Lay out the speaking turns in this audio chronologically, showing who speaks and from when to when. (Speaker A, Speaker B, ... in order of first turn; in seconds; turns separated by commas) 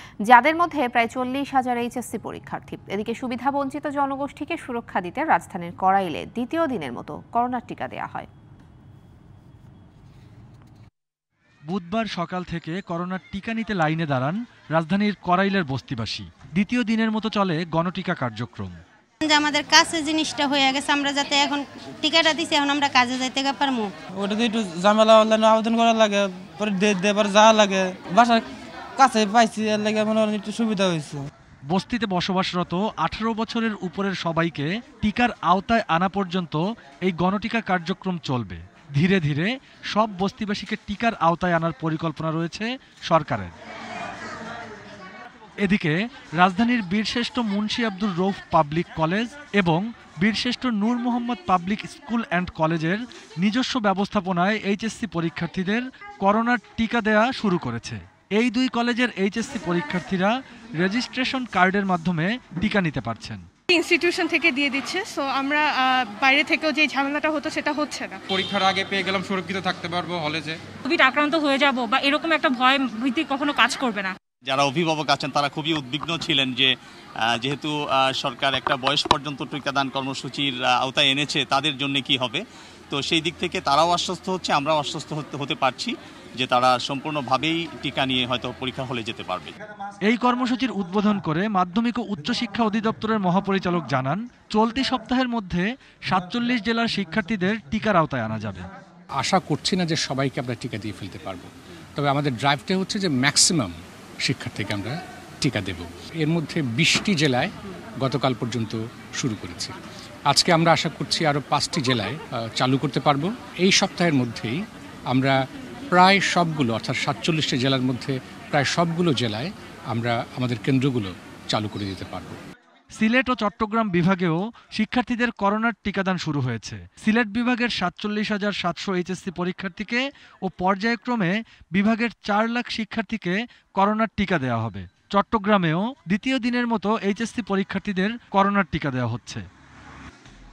Speaker A: 0.3-8.3, Speaker B: 11.7-14.3, Speaker B: 14.9-18.7, Speaker C: 19.2-23.9, Speaker D: 24.2-31.3, Speaker B: 31.7-36.6, Speaker B: 37.1-39.5, Speaker B: 40.0-43.5, Speaker B: 45.7-45.9, Speaker B: 46.4-58.0, Speaker B: 58.5-60.3, Speaker B: 60.9-63.4, Speaker E: 63.7-68.2, Speaker F: 68.3-70.6, Speaker G: 70.8-74.2, Speaker H: 74.5-76.7, Speaker H: 77.4-89.5, Speaker B: 90.1-98.6, Speaker I: 99.2-109.7, Speaker I: 110.3-114.6, Speaker I: 115.1-115.3, Speaker I: 115.9-122.4, Speaker B: 123.0-139.4